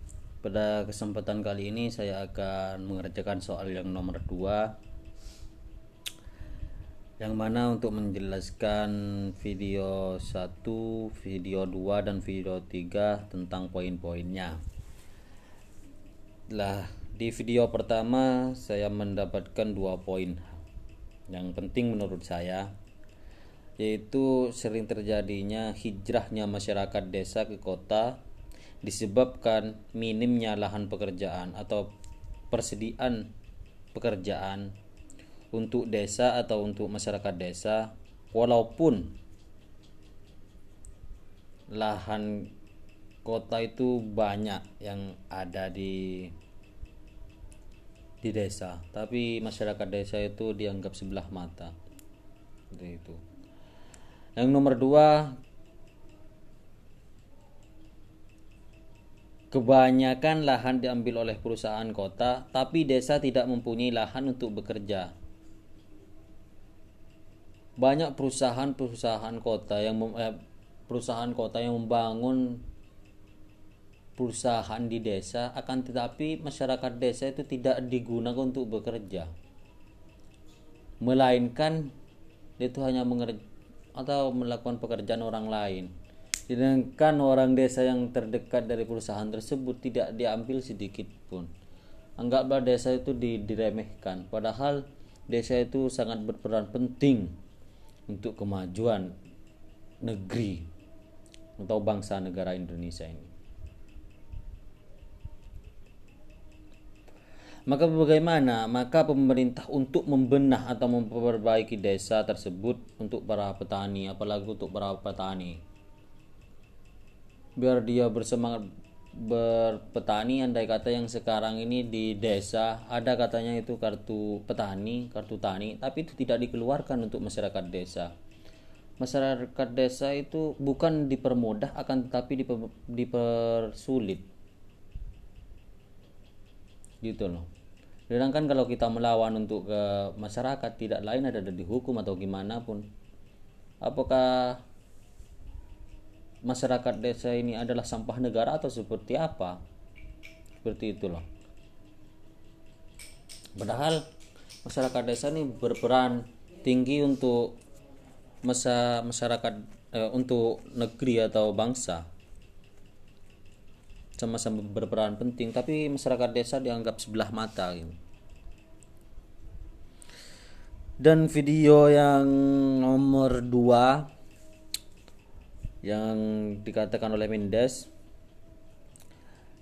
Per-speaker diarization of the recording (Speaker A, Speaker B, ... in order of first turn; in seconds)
Speaker A: 0.4-4.7, 7.2-14.6, 16.5-20.6, 21.3-22.7, 23.8-28.2, 28.8-31.9, 32.5-33.3, 33.9-34.7, 35.5-39.1, 41.7-42.5, 43.2-46.3, 48.2-51.7, 52.7-53.2, 54.4-55.4, 59.5-65.1, 67.8-72.6, 74.2-79.3, 81.0-81.9, 82.6-83.4, 84.0-85.9, 86.5-91.5, 92.2-97.3, 98.1-99.1, 100.0-100.7, 101.6-103.3, 107.7-115.6, 117.6-128.1, 129.0-134.3, 137.0-137.5, 138.1-142.8, 143.8-144.6, 146.4-149.6, 150.6-151.2, 153.6-154.1, 154.6-157.6, 158.4-162.1, 164.2-168.0, 171.0-174.1, 175.8-177.9